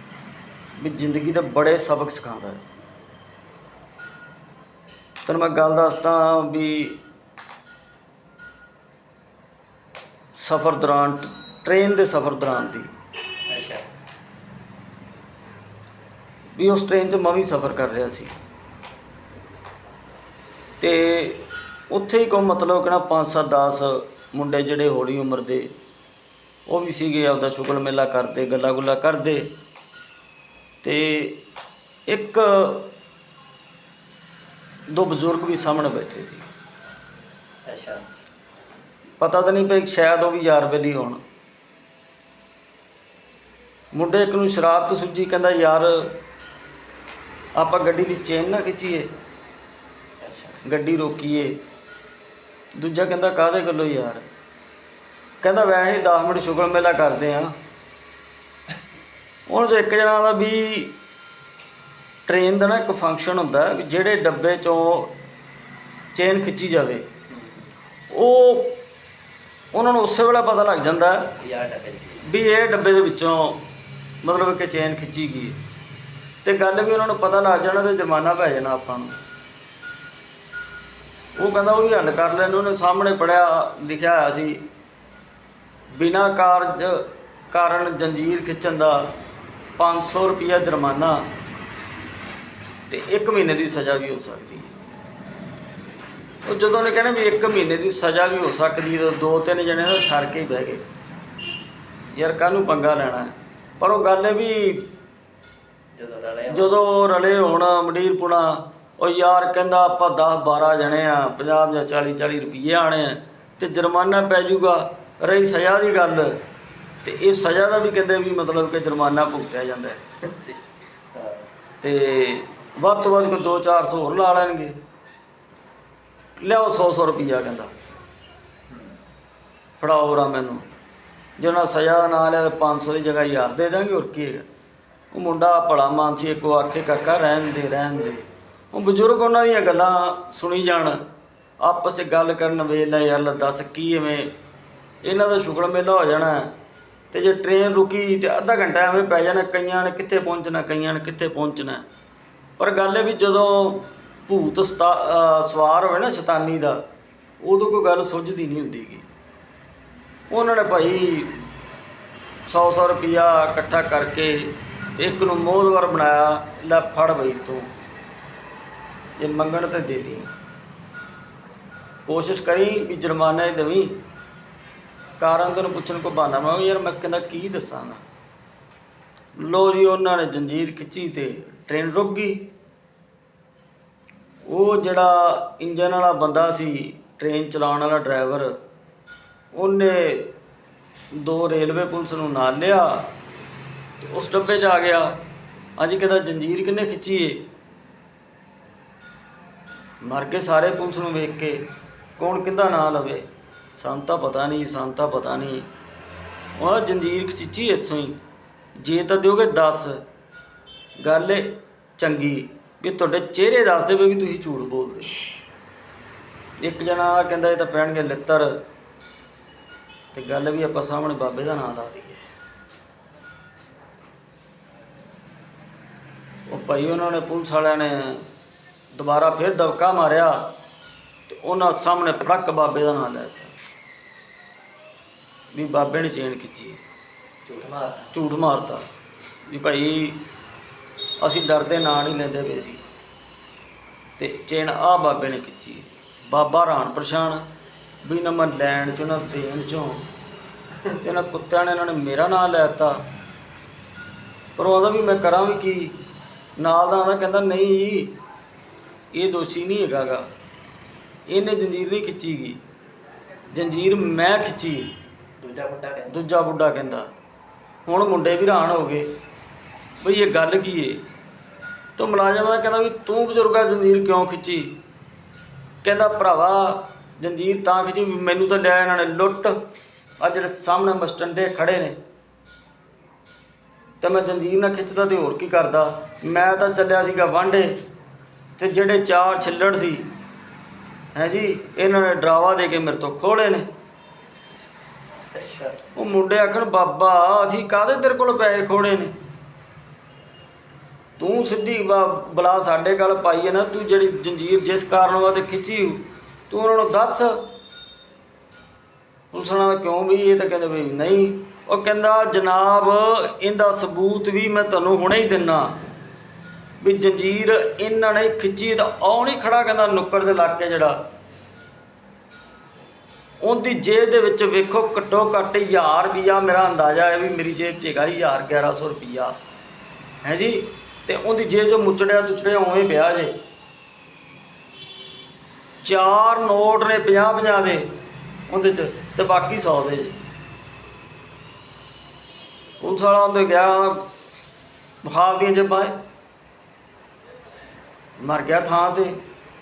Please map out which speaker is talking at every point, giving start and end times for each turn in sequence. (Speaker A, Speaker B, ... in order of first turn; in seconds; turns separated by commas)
Speaker A: 0.8-2.6, Speaker A: 5.2-7.0, Speaker A: 10.4-12.9, Speaker B: 13.5-13.8, Speaker A: 16.6-18.3, Speaker A: 20.8-25.7, Speaker A: 26.7-29.5, Speaker A: 30.8-31.4, Speaker A: 32.1-32.9, Speaker A: 34.9-36.5, Speaker B: 37.7-38.0, Speaker A: 39.2-41.2, Speaker A: 43.9-46.2, Speaker A: 47.6-49.1, Speaker B: 50.2-50.6, Speaker A: 50.6-51.6, Speaker A: 52.8-54.2, Speaker A: 55.4-57.5, Speaker A: 59.5-61.0, Speaker A: 62.3-65.1, Speaker A: 66.1-67.1, Speaker B: 67.3-67.7, Speaker A: 68.1-68.8, Speaker A: 69.7-71.4, Speaker B: 71.4-72.2, Speaker A: 72.2-73.6, Speaker A: 74.2-75.6, Speaker A: 76.4-79.2, Speaker A: 81.4-84.7, Speaker A: 85.9-89.1, Speaker A: 89.8-91.3, Speaker A: 92.9-94.7, Speaker A: 96.5-100.8, Speaker A: 102.1-104.9, Speaker B: 105.9-106.7, Speaker A: 106.5-116.4, Speaker A: 117.0-120.0, Speaker B: 120.2-120.6, Speaker B: 121.1-121.5, Speaker A: 121.8-124.8, Speaker A: 126.4-127.7, Speaker B: 128.7-128.9, Speaker A: 129.8-130.7, Speaker A: 131.4-134.5, Speaker A: 135.1-141.0, Speaker A: 141.6-144.3, Speaker A: 145.0-146.5, Speaker A: 147.1-151.8, Speaker A: 152.6-156.8, Speaker A: 157.4-159.1, Speaker A: 160.3-161.4, Speaker A: 162.5-167.7, Speaker A: 169.2-170.3, Speaker A: 172.1-173.9, Speaker A: 175.2-178.0, Speaker A: 179.4-182.5, Speaker A: 184.5-188.5, Speaker A: 189.5-190.3, Speaker A: 191.1-193.1, Speaker A: 194.0-195.2, Speaker A: 195.8-197.4, Speaker A: 200.0-201.6, Speaker A: 202.2-205.7, Speaker A: 206.6-208.2, Speaker A: 208.8-210.0, Speaker A: 211.0-215.2, Speaker A: 216.6-218.6, Speaker A: 220.1-222.3, Speaker A: 226.5-228.3, Speaker A: 228.9-230.5, Speaker A: 231.3-233.5, Speaker A: 235.5-236.8, Speaker B: 237.5-238.1, Speaker A: 238.1-238.8, Speaker A: 239.5-240.2, Speaker A: 241.2-242.8, Speaker A: 244.2-247.4, Speaker A: 248.0-250.1, Speaker A: 250.9-253.0, Speaker A: 254.6-256.0, Speaker A: 256.6-258.1, Speaker A: 259.1-260.3, Speaker A: 261.3-262.6, Speaker A: 263.5-264.9, Speaker B: 265.4-266.1, Speaker A: 266.1-267.1, Speaker A: 267.9-269.1, Speaker A: 270.0-271.0, Speaker A: 272.0-274.7, Speaker A: 275.8-279.6, Speaker A: 280.2-282.0, Speaker A: 284.0-287.8, Speaker A: 288.6-290.1, Speaker A: 291.1-293.7, Speaker B: 295.3-295.8, Speaker A: 295.9-299.1, Speaker A: 301.2-307.5, Speaker A: 309.3-315.8, Speaker A: 316.8-321.0, Speaker A: 323.4-329.4, Speaker A: 330.2-333.3, Speaker A: 335.8-337.9, Speaker A: 338.5-340.2, Speaker A: 342.8-344.1, Speaker A: 345.0-345.9, Speaker A: 348.2-349.2